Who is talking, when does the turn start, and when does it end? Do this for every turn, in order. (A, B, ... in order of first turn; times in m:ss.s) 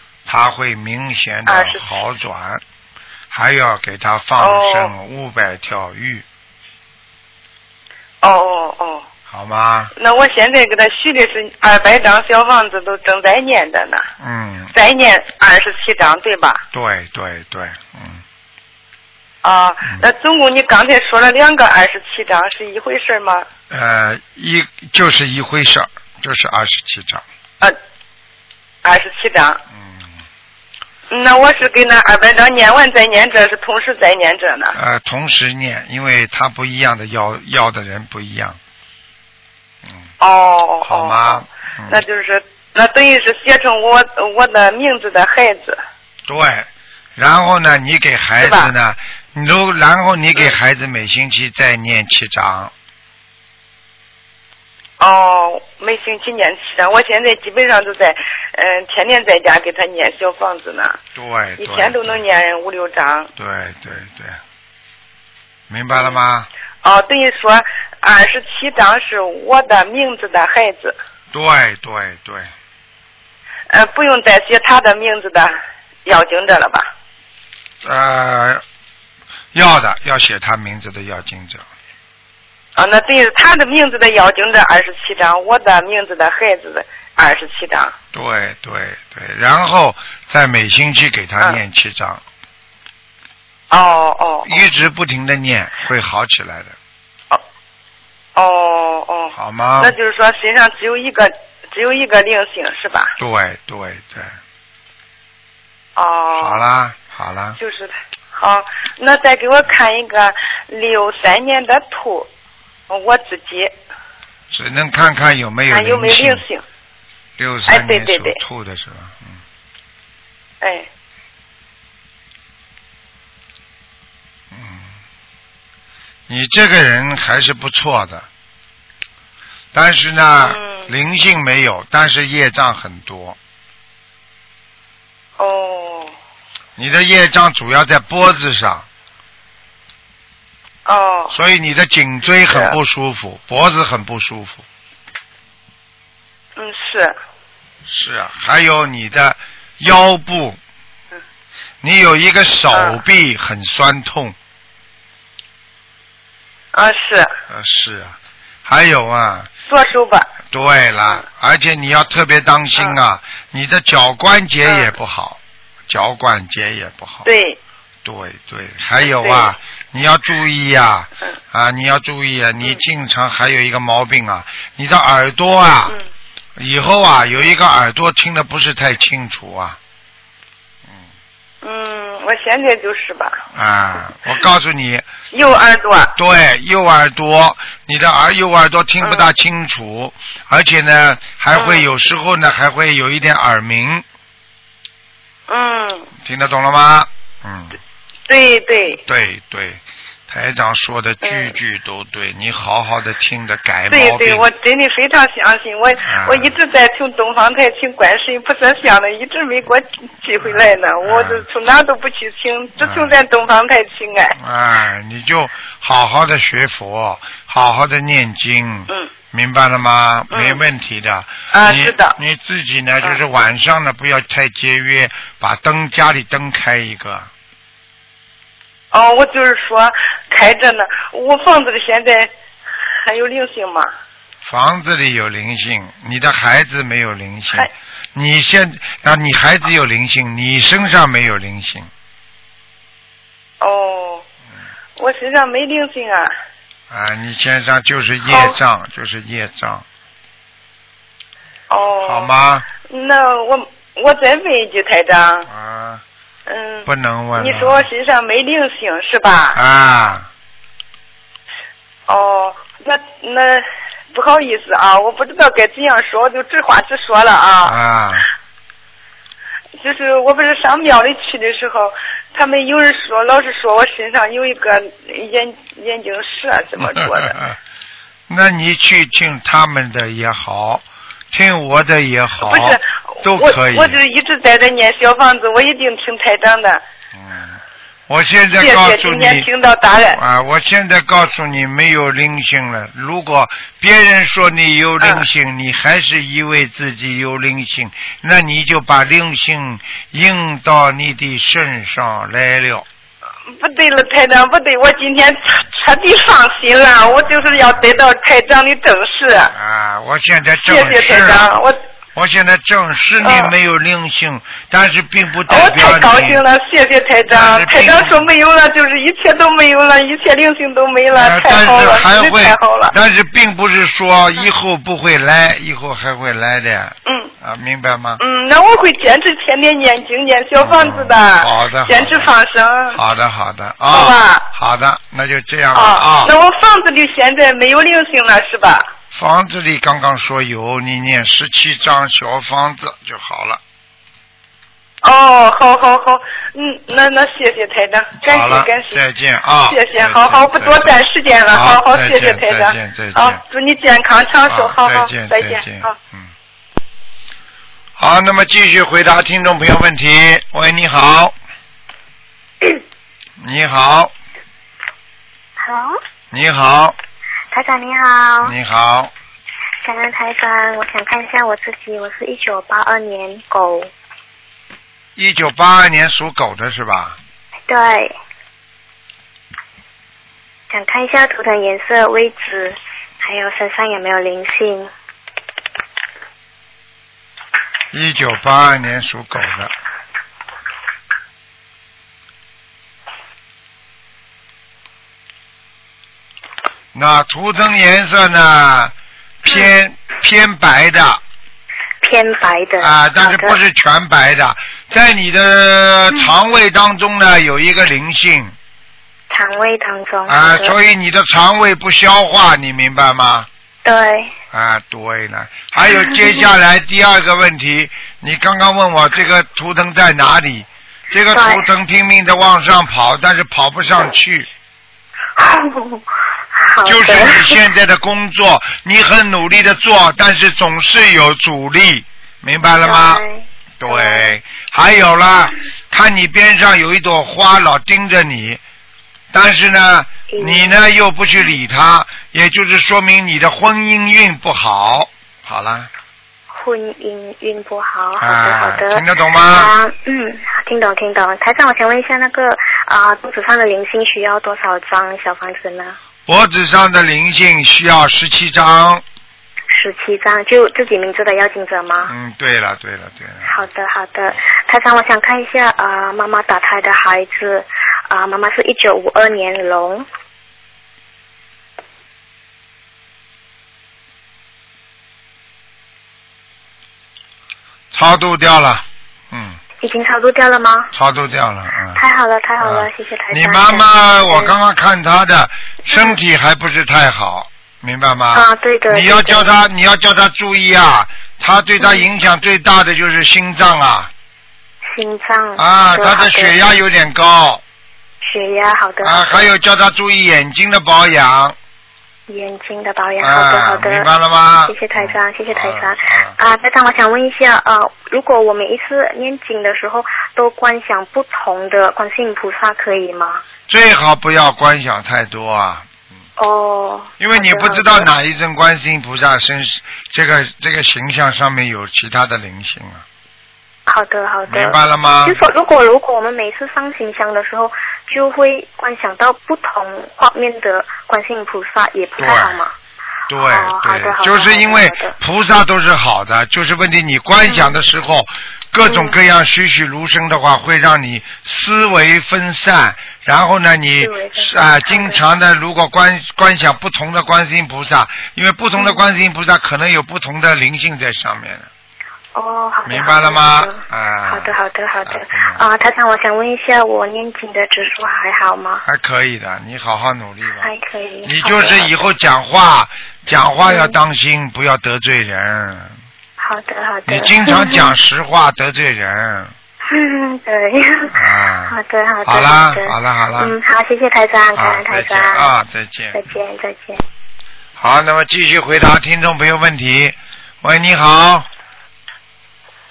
0:00.2-0:02.6 A
0:01.5-0:01.9 B
0:03.3-0:06.2 A
0:04.4-0:04.9 B
0:08.2-0:09.0 B
0:09.3-0:09.9 A
0:10.0-0:14.1 B
0:14.2-0:14.7 A
0:14.7-0:16.6 B
0:16.7-0:18.2 A
0:19.4-0:23.5 B
0:23.7-0:27.2 A
0:28.8-0:29.6 B
0:29.7-0:30.1 A
0:31.1-0:34.8 B
0:34.7-0:38.6 A
0:40.2-0:45.8 B
0:40.8-0:42.0 A
0:46.3-0:52.7 A
0:48.4-0:48.7 B
0:55.0-1:01.0 B
1:01.2-1:02.2 A
1:01.6-1:03.3 B
1:03.4-1:04.4 A
1:05.7-1:06.5 A
1:06.8-1:11.0 B
1:11.3-1:12.5 A
1:13.7-1:15.5 B
1:16.0-1:16.9 B
1:17.8-1:18.6 A
1:19.5-1:21.6 A
1:22.8-1:27.9 B
1:28.1-1:32.2 A
1:33.7-1:34.6 B
1:34.4-1:36.8 A
1:38.4-1:43.1 B
1:39.3-1:40.0 A
1:43.2-1:44.4 A
1:46.0-1:46.6 B
1:46.4-1:47.6 A
1:47.6-1:52.3 B
1:52.9-1:53.7 B
1:54.5-1:56.4 A
1:55.7-1:56.6 B
1:57.4-1:59.4 A
1:57.7-1:58.4 B
2:00.6-2:00.9 B
2:04.5-2:04.9 A
2:06.3-2:08.3 A
2:09.7-2:13.4 A
2:10.4-2:10.9 B
2:15.4-2:16.1 B
2:16.8-2:18.9 A
2:20.8-2:21.3 B
2:21.3-2:24.6 A
2:22.5-2:22.8 B
2:26.6-2:27.2 B
2:27.8-2:30.6 A
2:31.8-2:34.4 A
2:32.7-2:33.0 B
2:36.7-2:37.3 B
2:37.5-2:39.5 A
2:39.7-2:40.3 B
2:40.5-2:47.2 A
2:44.6-2:44.9 B
2:47.2-2:47.6 B
2:48.0-2:56.0 A
2:49.0-2:49.5 B
2:56.6-2:59.8 A
3:01.6-3:03.4 B
3:03.5-3:05.1 A
3:05.3-3:06.2 B
3:06.2-3:14.0 A
3:09.0-3:09.3 B
3:11.5-3:11.8 B
3:15.5-3:16.1 B
3:16.2-3:17.8 A
3:18.3-3:19.0 B
3:19.0-3:24.4 A
3:21.2-3:21.5 B
3:23.9-3:34.4 B
3:26.0-3:26.6 A
3:30.4-3:31.4 A
3:32.8-3:33.1 A
3:34.3-3:47.3 A
3:40.3-3:40.6 B
3:41.5-3:42.2 B
3:48.9-3:52.3 B
3:53.0-3:53.9 B
3:54.4-4:01.9 A
4:03.6-4:04.2 B
4:05.0-4:06.3 B
4:06.9-4:09.8 A
4:08.2-4:08.6 B
4:11.7-4:12.3 B
4:12.0-4:12.7 A
4:12.8-4:15.5 B
4:15.5-4:16.0 A
4:16.5-4:19.6 B
4:16.8-4:17.9 A
4:19.5-4:20.3 A
4:22.1-4:27.8 B
4:27.6-4:28.3 A
4:29.8-4:37.4 B
4:37.0-4:37.4 A
4:38.3-4:44.0 A
4:42.4-4:46.8 B
4:47.1-4:49.5 A
4:48.6-4:50.2 B
4:50.1-5:02.8 A
5:03.4-5:09.5 B
5:07.4-5:07.6 A
5:09.5-5:11.5 A
5:10.6-5:11.8 B
5:12.1-5:16.4 A
5:13.2-5:13.5 B
5:15.5-5:22.9 B
5:17.3-5:18.3 A
5:21.1-5:28.2 A
5:27.0-5:27.3 B
5:28.2-5:33.0 B
5:30.6-5:32.3 A
5:32.9-5:36.3 A
5:33.9-5:34.5 B
5:35.7-5:38.9 B
5:39.1-5:43.6 A
5:45.0-5:49.0 B
5:48.2-5:51.0 A
5:49.7-5:55.9 B
5:51.5-5:53.4 A
5:54.5-5:56.3 A
5:58.0-6:01.3 A
6:03.4-6:04.1 A
6:05.6-6:06.0 C
6:06.3-6:07.0 A
6:07.5-6:08.5 C
6:08.4-6:09.1 A
6:09.8-6:13.9 C
6:15.2-6:17.2 A
6:17.7-6:18.1 C
6:20.7-6:24.9 C
6:27.9-6:29.7 A
6:36.9-6:41.2 A
6:42.0-6:43.6 C
6:42.8-6:48.5 A
6:49.3-6:50.8 C
6:50.3-6:53.5 A
6:53.8-6:54.3 C
6:54.5-7:04.5 A
6:55.8-6:56.4 C
7:01.3-7:01.7 C
7:05.4-7:06.0 C
7:06.6-7:07.6 C
7:06.8-7:13.2 A
7:12.8-7:14.4 C
7:13.8-7:18.6 A
7:19.3-7:25.9 A
7:20.3-7:20.8 C
7:26.5-7:36.0 C
7:28.2-7:29.7 A
7:36.3-7:39.0 A
7:39.7-7:42.1 C
7:42.1-7:43.6 A
7:43.4-7:50.0 C
7:57.9-7:59.6 A
7:59.8-8:00.9 C
8:00.9-8:02.0 A
8:01.9-8:04.5 C
8:02.6-8:14.1 A
8:08.3-8:09.6 C
8:14.9-8:16.7 C
8:15.6-8:17.6 A
8:18.2-8:19.5 C
8:19.0-8:21.6 A
8:22.3-8:24.1 C
8:23.2-8:26.4 A
8:24.6-8:33.4 C
8:33.7-8:35.9 A
8:36.4-8:38.1 C
8:37.2-8:43.0 A
8:43.9-8:52.7 C
8:44.5-8:45.4 A
8:52.2-8:52.6 A
8:53.3-9:11.7 A
8:53.3-8:55.2 C
8:57.4-8:57.8 C
8:58.8-8:59.2 C
9:04.0-9:05.2 C
9:12.3-9:18.8 C
9:12.8-9:15.6 A
9:18.8-9:20.7 A
9:20.6-9:22.0 C
9:21.2-9:26.0 A
9:23.6-9:24.0 C
9:26.4-9:27.9 C
9:27.1-9:29.5 A
9:29.9-9:31.1 C
9:31.1-9:33.5 A
9:31.7-9:35.5 C
9:34.6-9:36.2 A
9:36.1-9:37.0 C
9:37.8-9:41.5 A